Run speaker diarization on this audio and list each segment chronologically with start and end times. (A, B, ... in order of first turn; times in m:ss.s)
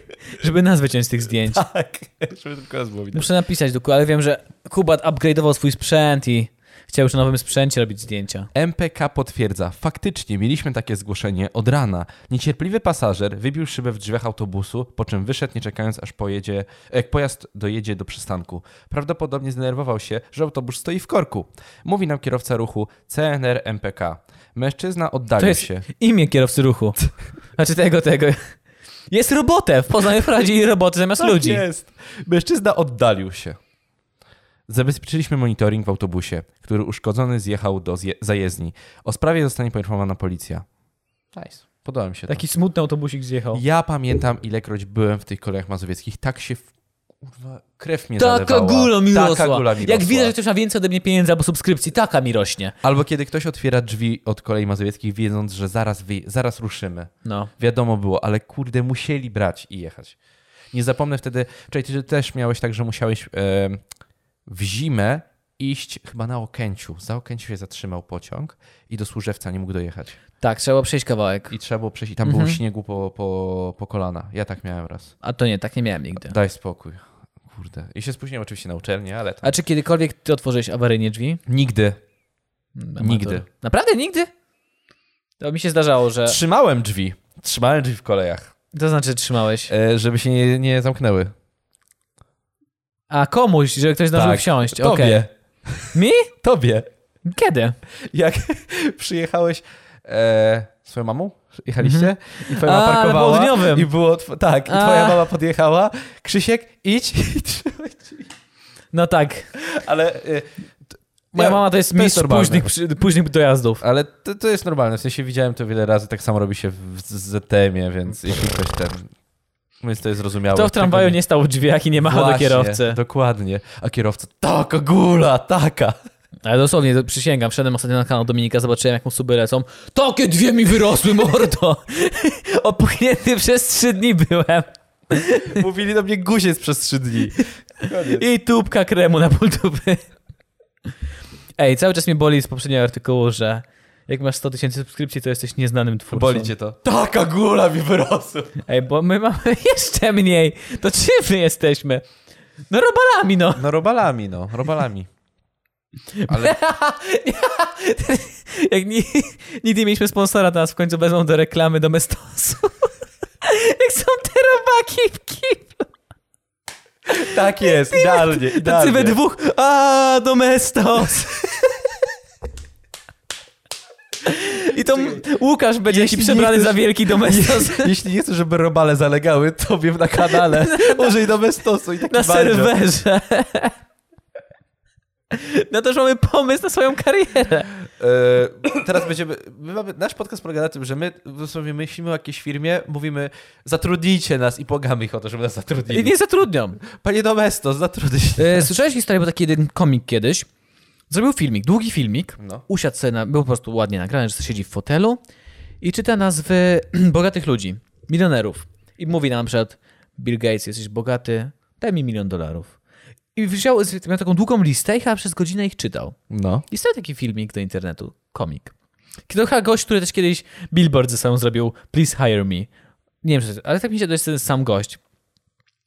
0:00.3-0:01.6 A
0:01.4-0:03.3 B
0:03.1-0:08.5 A
0:08.5-0:25.9 B
0:25.4-0:27.0 A
0:27.6-0:28.4 A
0:29.1-0:31.6 A
0:31.2-0:33.6 B
0:34.7-0:40.6 B
0:41.4-0:42.4 B
0:42.3-0:43.6 A
0:43.5-0:46.7 B
0:47.2-0:50.3 B
0:48.2-0:52.8 A
0:52.8-1:00.2 B
0:57.2-0:57.5 A
1:00.7-1:03.8 B
1:04.5-1:10.2 B
1:10.4-1:11.5 A
1:11.5-1:15.1 B
1:12.2-1:12.6 A
1:15.2-1:16.4 A
1:16.2-1:19.5 B
1:19.4-1:21.4 A
1:21.5-1:22.0 B
1:22.8-1:24.3 A
1:23.0-1:23.4 B
1:25.4-1:26.4 A
1:26.2-1:28.5 B
1:28.7-1:29.7 A
1:29.7-1:31.3 B
1:33.1-1:35.2 A
1:34.1-1:36.9 B
1:35.9-1:36.3 A
1:37.2-1:37.8 A
1:38.1-1:48.2 B
1:41.8-1:43.9 A
1:44.7-1:45.2 A
1:48.9-1:49.5 A
1:49.6-1:50.5 B
1:51.3-1:53.8 A
1:51.4-1:52.7 B
1:53.8-1:59.1 B
1:59.8-2:01.2 B
2:00.5-2:03.0 A
2:02.0-2:06.0 B
2:06.4-2:15.6 A
2:15.4-2:18.2 B
2:18.1-2:20.0 A
2:21.6-2:26.5 A
2:26.1-2:28.6 B
2:28.6-2:32.0 A
2:32.7-2:33.6 A
2:33.6-2:35.1 B
2:36.2-2:42.9 A
2:36.3-2:36.6 B
2:43.4-2:45.9 A
2:47.1-2:49.2 B
2:47.1-2:51.9 A
2:54.2-2:57.9 A
2:54.9-2:55.2 B
2:55.9-3:02.7 B
3:00.2-3:01.2 A
3:02.0-3:03.8 A
3:05.3-3:07.7 A
3:08.0-3:16.2 B
3:15.9-3:16.8 A
3:16.8-3:18.7 B
3:18.4-3:20.5 A
3:21.1-3:25.2 A
3:25.8-3:32.8 A
3:33.4-3:36.2 A
3:36.3-3:36.6 B
3:36.7-3:38.7 A
3:39.3-3:42.7 A
3:43.2-3:45.0 A